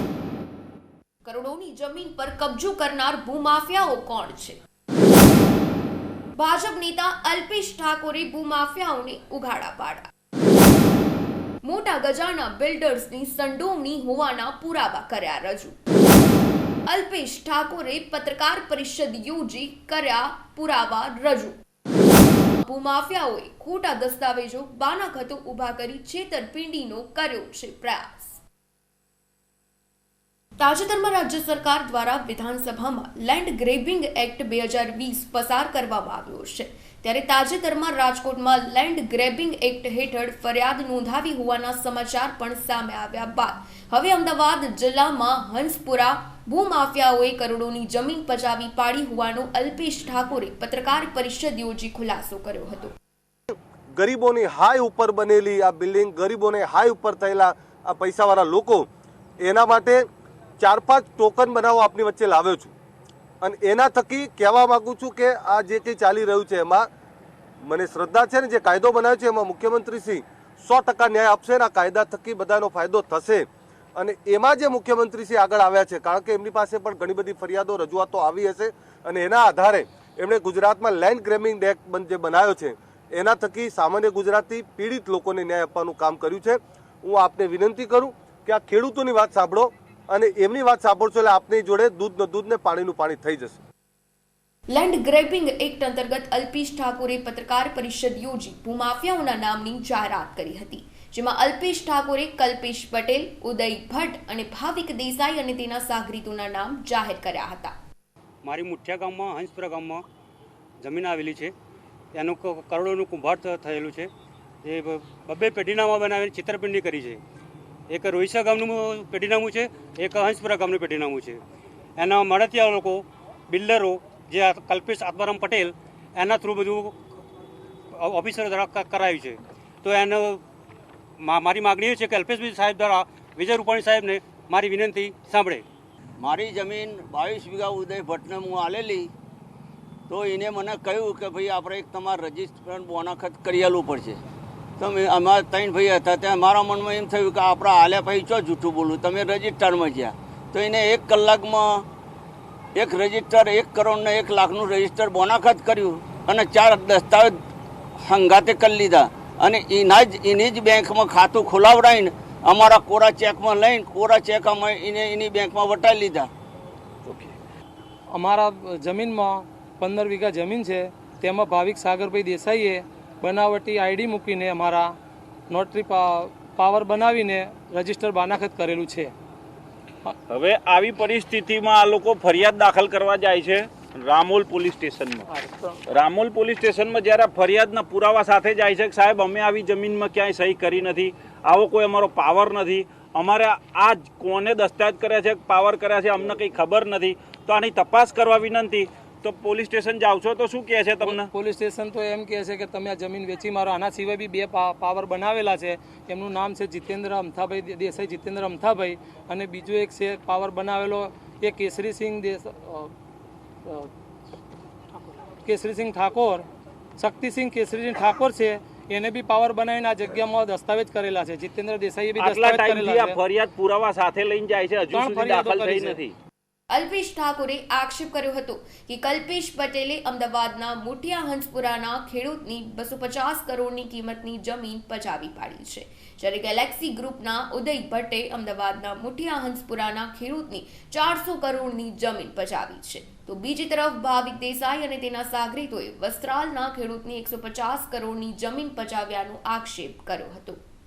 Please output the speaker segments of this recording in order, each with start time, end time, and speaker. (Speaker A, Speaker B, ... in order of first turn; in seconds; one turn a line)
Speaker A: 1.2-4.6
Speaker A: 6.3-10.1
Speaker A: 11.6-15.8
Speaker A: 16.9-21.6
Speaker A: 22.6-28.4
Speaker A: 30.6-52.9
Speaker B: 54.0-58.9
Speaker B: 59.4-60.0
Speaker B: 60.6-62.7
Speaker B: 63.4-66.9
Speaker B: 67.6-93.6
Speaker A: 94.7-107.8
Speaker C: 108.4-110.0
Speaker C: 110.8-111.5
Speaker C: 112.1-114.1
Speaker C: 114.6-117.2
Speaker C: 117.9-121.4
Speaker C: 122.0-126.9
Speaker C: 127.9-130.4
Speaker C: 131.2-135.6
Speaker D: 136.2-139.1
Speaker D: 140.1-144.2
Speaker D: 144.8-151.8
Speaker D: 152.7-157.3
Speaker D: 158.0-166.3
Speaker E: 168.1-174.9
Speaker E: 175.5-179.1
Speaker F: 180.3-185.3
Speaker F: 185.9-201.3
Speaker E: 201.0-212.9
Speaker E: 215.4-216.4
Speaker E: 217.0-223.2
Speaker F: 222.2-226.1
Speaker E: 224.9-226.0
Speaker A: 226.7-250.6